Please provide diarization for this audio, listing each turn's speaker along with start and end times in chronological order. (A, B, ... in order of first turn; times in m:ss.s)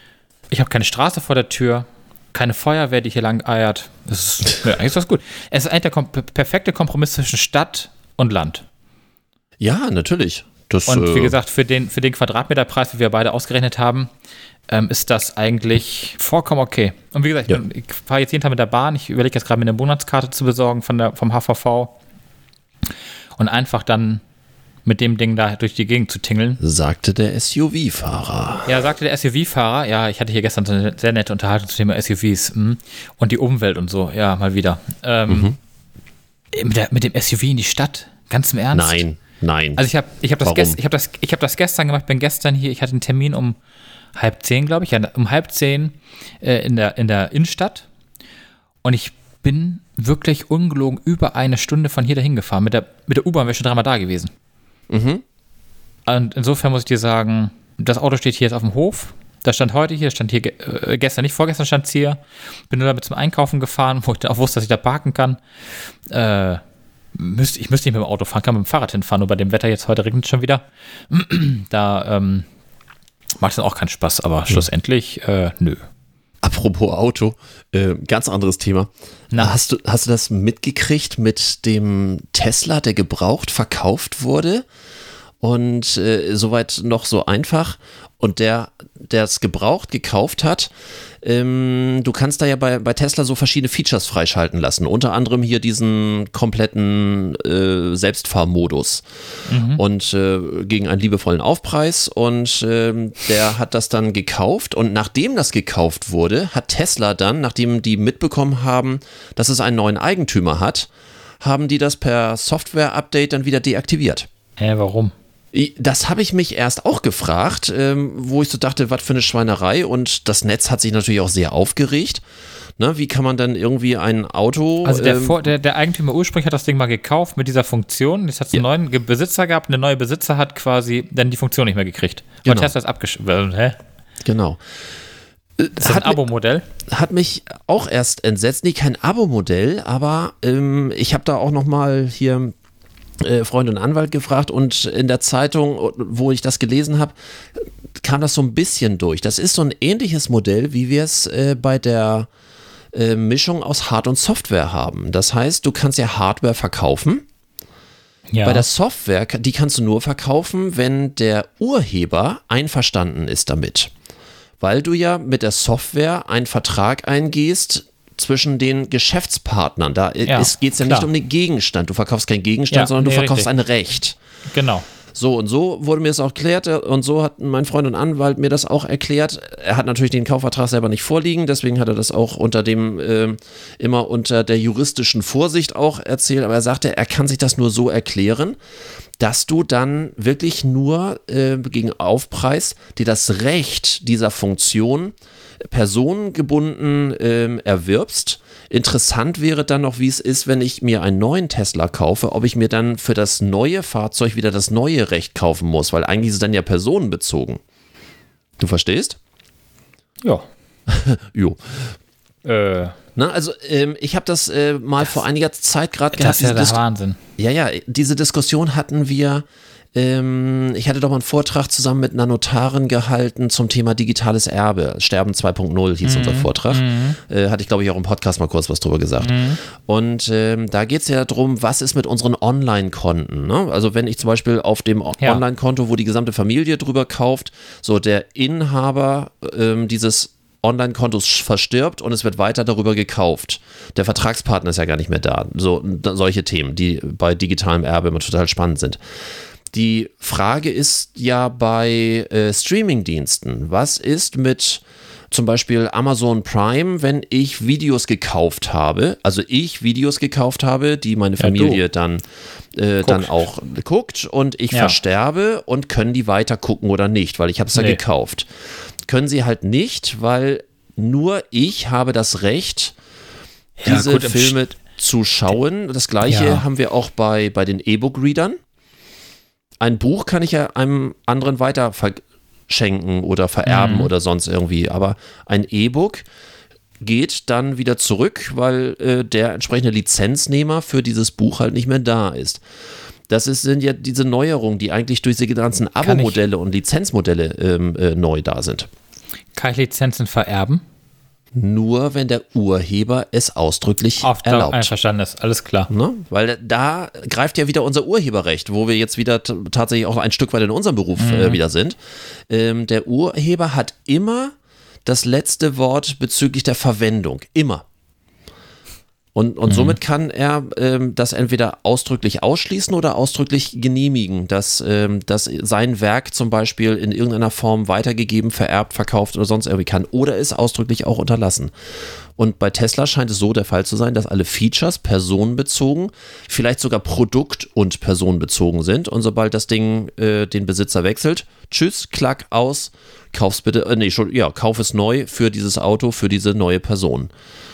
0:00.5-0:08.6 A
0:09.6-0:11.3 B
0:10.9-0:14.1 A
0:14.7-0:21.9 A
0:23.4-0:24.2 A
0:24.8-0:26.6 A
0:26.6-0:28.8 B
0:28.6-0:35.5 A
0:35.3-0:35.6 B
0:36.5-0:39.0 A
0:38.7-0:39.8 B
0:39.8-0:43.6 A
0:40.4-0:40.8 B
0:44.1-0:47.8 A
0:48.8-0:54.3 A
0:54.9-0:55.2 B
0:56.0-1:05.4 A
1:06.1-1:06.6 A
1:07.1-1:12.4 A
1:13.4-1:15.8 A
1:16.4-1:24.6 B
1:19.3-1:19.6 A
1:25.4-1:39.0 B
1:39.5-1:39.8 A
1:39.7-1:50.9 B
1:51.4-1:54.3 B
1:54.6-1:55.1 A
1:55.5-2:02.2 B
2:02.8-2:05.4 B
2:04.8-2:13.8 A
2:12.4-2:12.7 B
2:14.2-2:14.6 B
2:15.6-2:16.2 B
2:15.8-2:16.6 A
2:16.8-2:22.5 B
2:23.2-2:32.3 B
2:32.9-2:37.2 B
2:38.3-2:38.6 A
2:38.4-2:43.9 B
2:44.6-2:54.2 B
2:50.2-2:51.1 A
2:52.7-2:53.5 A
2:54.5-2:54.8 A
2:55.1-3:08.6 B
3:09.2-3:27.6 B
3:28.6-3:29.2 B
3:30.9-3:31.9 B
3:32.4-3:32.9 A
3:33.2-3:36.8 B
3:36.2-3:37.2 A
3:37.4-4:09.0 B
3:46.0-3:47.2 A
3:49.2-3:49.6 A
4:09.7-4:22.2 B
4:21.4-4:21.8 A
4:22.7-4:28.5 B
4:23.0-4:23.4 A
4:24.7-4:25.0 A
4:27.7-4:28.0 A
4:29.0-4:32.9 B
4:33.8-4:34.6 A
4:33.8-4:38.6 B
4:36.2-4:36.6 A
4:39.8-4:46.2 B
4:43.6-4:44.1 A
4:47.0-4:52.6 B
4:53.3-4:58.9 B
4:56.0-4:56.4 A
4:59.5-5:00.8 A
5:01.5-5:04.9 B
5:04.2-5:05.9 A
5:05.9-5:12.0 B
5:11.2-5:11.6 A
5:12.5-5:14.5 B
5:15.0-5:17.8 B
5:19.3-5:31.7 B
5:19.7-5:20.0 A
5:32.4-5:47.3 B